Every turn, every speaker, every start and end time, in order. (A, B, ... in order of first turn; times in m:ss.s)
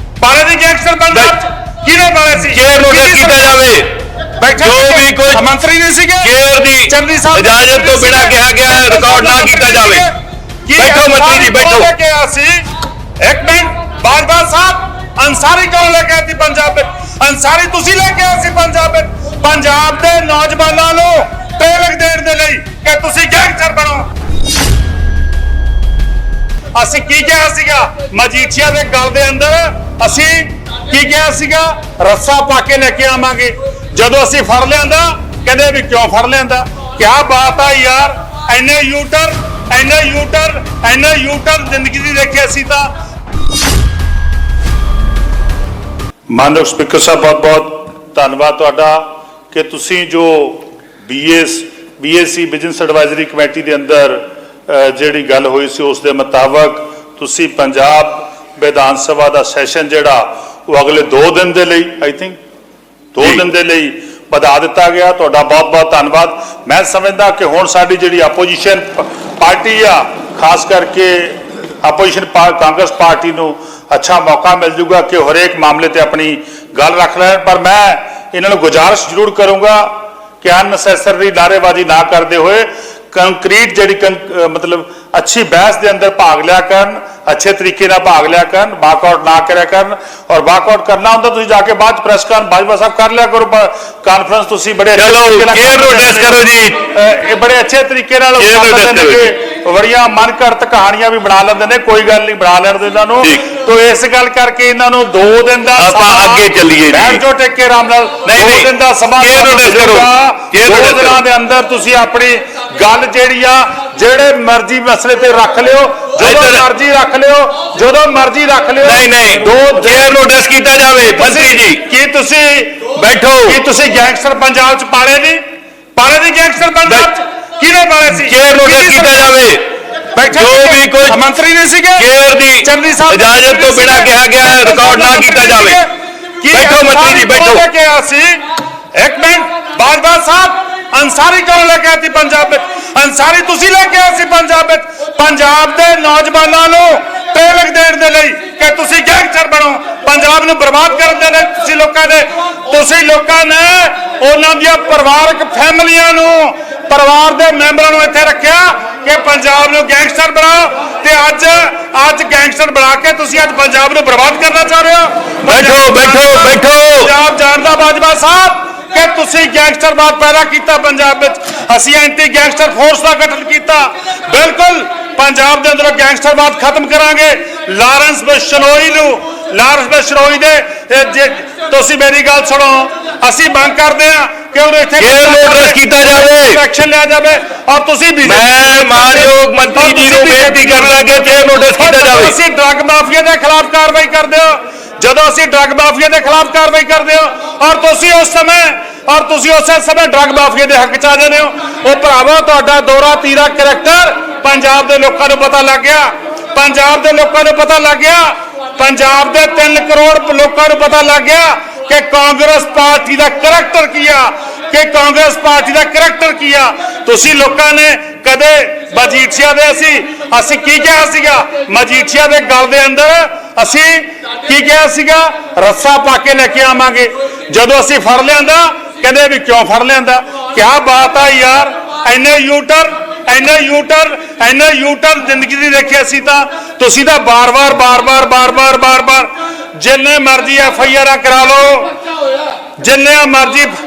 0:00.2-0:03.6 A
0:02.4-0:03.9 B
0:04.4-0:06.3 A
0:04.6-0:05.4 B
0:06.2-0:10.0 B
0:06.8-0:10.2 A
0:10.7-0:12.6 A
0:10.8-0:11.9 B
0:13.2-0:24.1 A
0:26.7-0:42.9 A
0:46.3-1:02.4 A
1:03.1-2:00.1 A
1:34.9-1:36.8 B
1:38.4-1:39.3 B
1:45.8-1:47.2 B
1:48.2-1:51.2 B
1:56.2-1:56.6 B
1:58.8-2:01.8 B
2:01.2-2:02.9 A
2:02.9-2:03.6 B
2:03.4-2:05.4 A
2:06.0-2:09.3 A
2:08.1-2:09.7 B
2:10.1-2:12.1 A
2:10.2-2:11.2 B
2:12.0-2:15.8 B
2:12.6-2:18.4 A
2:16.5-2:17.6 B
2:18.9-4:02.0 A
2:45.4-2:47.1 B
3:05.0-3:06.6 B
3:08.2-3:12.4 B
4:02.8-4:03.7 A